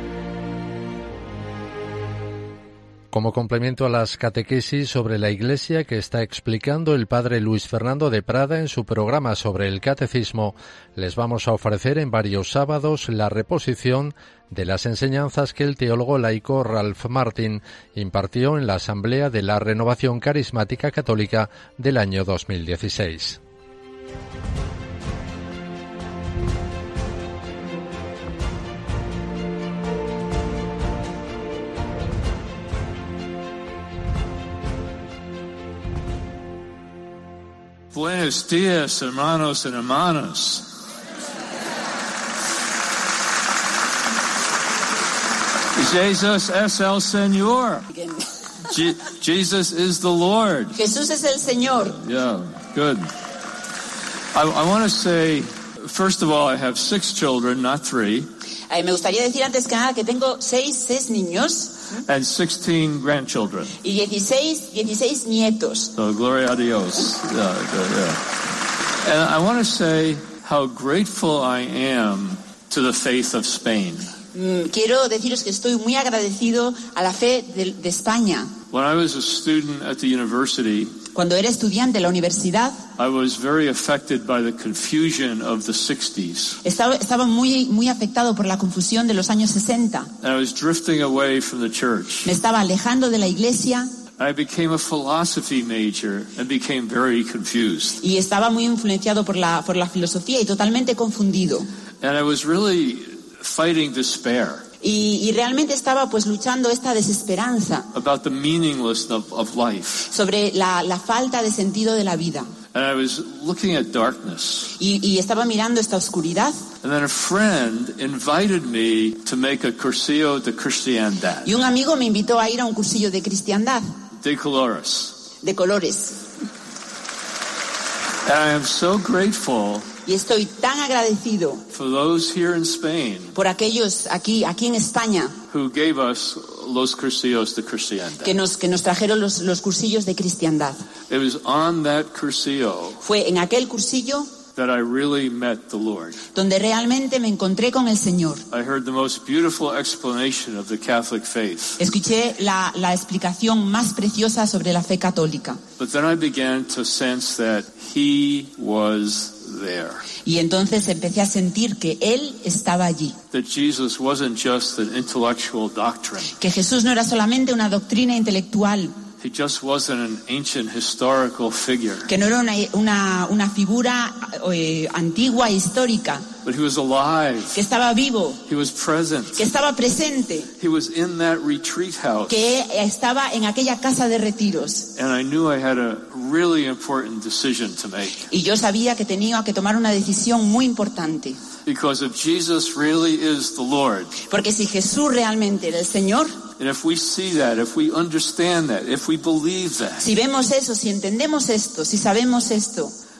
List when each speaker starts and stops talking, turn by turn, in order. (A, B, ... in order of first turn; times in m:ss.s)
0:03.1-0:23.4 A
0:37.9-0:40.7 B
0:45.7-0:47.9 B
0:47.9-0:48.3 C
0:48.7-0:50.8 B
0:50.8-0:52.0 C
0:52.0-0:53.1 B
0:54.3-0:58.3 B
0:58.7-1:01.8 C
1:02.1-1:03.8 B
1:03.8-1:05.9 C
1:06.0-1:08.3 B
1:09.0-1:14.1 B
1:14.3-1:18.5 C
1:18.7-1:21.0 B
1:21.1-1:22.8 C
1:23.0-1:26.6 B
1:26.6-1:30.1 C
1:30.2-1:32.3 B
1:32.2-1:33.9 C
1:34.2-1:38.0 B
1:38.0-1:41.7 C
1:42.0-1:44.7 B
1:44.8-1:47.9 C
1:47.9-1:50.1 B
1:50.1-1:52.5 C
1:52.7-1:54.7 B
1:54.8-1:56.6 C
1:56.8-2:01.5 B
2:01.4-2:03.9 C
2:04.2-2:05.2 B
2:05.4-2:06.2 C
2:08.2-2:09.9 B
2:10.0-2:11.6 C
2:11.7-2:13.3 B
2:13.3-2:15.4 C
2:15.5-2:18.3 B
2:18.2-2:20.8 C
2:21.1-2:23.0 B
2:23.0-2:24.3 C
2:24.6-2:26.2 B
2:26.3-2:28.4 C
2:28.5-2:31.8 B
2:31.8-2:35.6 C
2:35.8-2:40.0 B
2:40.2-2:43.2 C
2:43.3-2:46.3 B
2:46.4-2:48.9 C
2:49.2-2:52.1 B
2:52.1-2:56.3 C
2:56.4-2:57.6 B
2:57.5-2:58.4 C
2:58.5-2:59.4 B
2:59.3-3:00.5 C
3:00.6-3:02.5 B
3:02.3-3:04.9 C
3:05.0-3:08.2 B
3:08.3-3:11.4 C
3:11.6-3:14.1 B
3:14.3-3:16.4 C
3:16.6-3:20.0 B
3:20.0-3:22.9 C